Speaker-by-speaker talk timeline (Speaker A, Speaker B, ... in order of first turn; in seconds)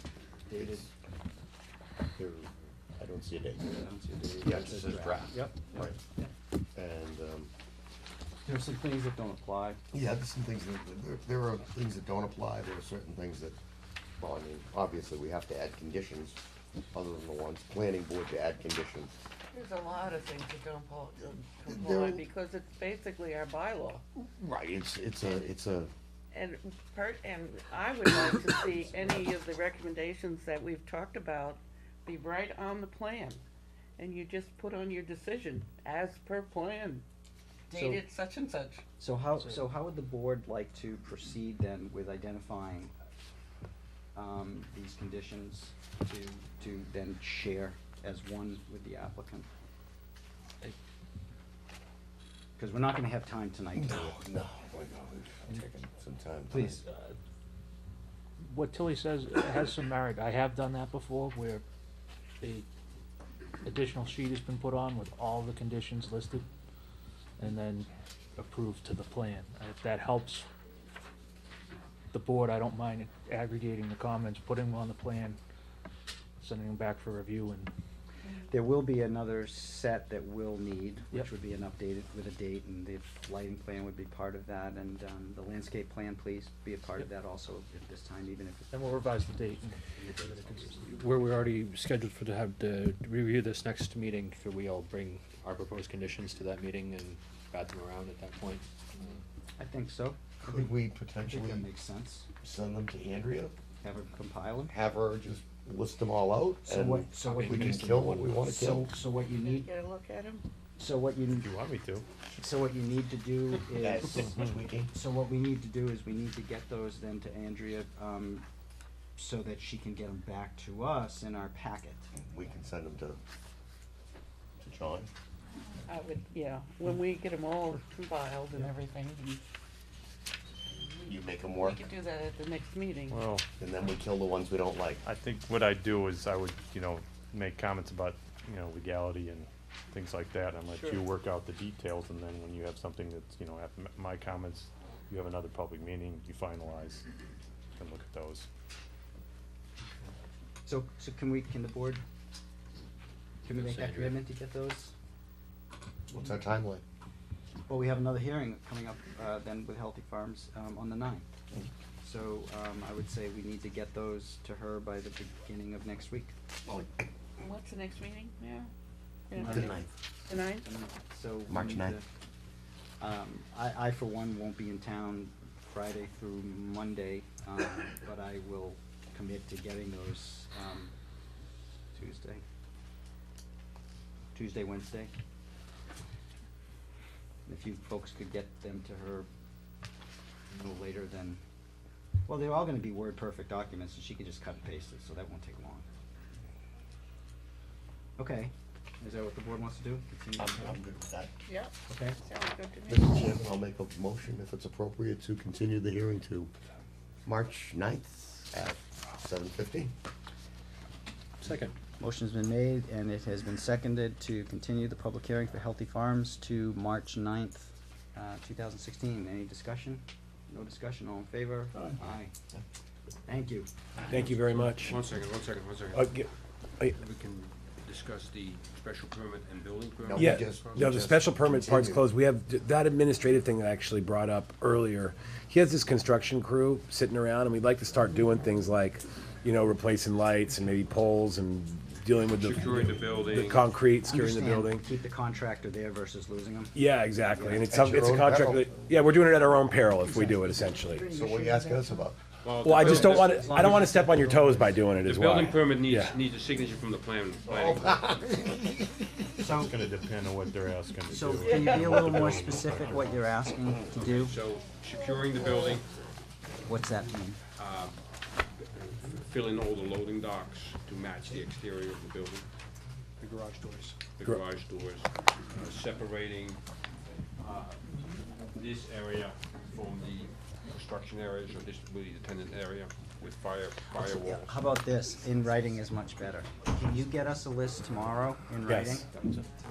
Speaker A: 0.5-0.9, 3.7-6.3, 8.5-9.8, 37.7-38.0, 39.0-42.9, 44.1-49.5, 52.6-54.3, 56.5-56.8, 78.5-88.7, 99.6-102.3, 103.8-104.7, 106.7-109.7, 110.8-111.5, 112.3-114.3, 114.9-118.5, 119.2-122.0, 150.7-152.0, 153.4-154.9, 157.7-161.2, 162.0-166.3, 169.3-169.8, 170.6-172.1, 173.0-180.9, 181.9-182.4, 184.3-185.1, 187.5-189.3, 190.5-191.4, 192.3-195.9, 198.2-200.8, 201.9-202.2, 212.0-222.3, 223.3-223.7, 244.0-246.8, 247.3-247.7, 250.0-251.9, 252.7-254.7, 259.4-259.8, 261.1-264.4, 266.6-267.4, 284.1-289.1
Speaker B: 0.6-0.9, 2.2-3.7, 4.4-6.0, 6.8-7.5, 9.9-13.6, 14.2-16.4, 16.9-19.1, 21.7-22.2, 24.4-25.9, 53.8-56.8, 100.5-101.7, 102.4-103.5, 104.7-108.9, 113.7-114.9, 122.2-123.2, 124.6-125.1, 131.1-131.9, 133.6-135.0, 156.1-156.8, 169.4-169.9, 171.5-172.0, 200.4-201.3, 202.9-206.5, 207.3-209.9, 230.1-232.0, 247.6-248.7, 251.1-252.2, 257.5-258.7
Speaker C: 19.5-24.0, 26.3-33.4, 34.0-37.0, 37.7-38.8, 109.3-110.5, 125.9-129.4, 130.7-133.2, 140.7-141.0, 167.4-168.7, 169.3-170.7, 201.5-203.2
Speaker D: 58.5-61.6, 63.6-66.5, 67.4-70.5, 72.1-75.4, 76.4-77.7, 88.7-90.8
Speaker E: 90.8-98.7, 107.3-108.0, 153.5-154.2, 211.4-211.8, 273.2-274.0
Speaker F: 111.3-112.1, 133.1-133.5, 135.0-147.0, 147.8-148.5, 259.5-263.3
Speaker G: 224.1-225.0, 225.9-226.3, 230.1-244.8, 246.8-251.1, 252.6-256.1, 288.7-289.1
Speaker H: 224.8-226.2, 226.8-230.9, 242.4-243.7, 252.4-253.7, 255.0-258.0, 264.0-265.9, 267.6-268.0, 269.0-272.5, 274.2-276.6, 277.4-277.8, 278.6-284.6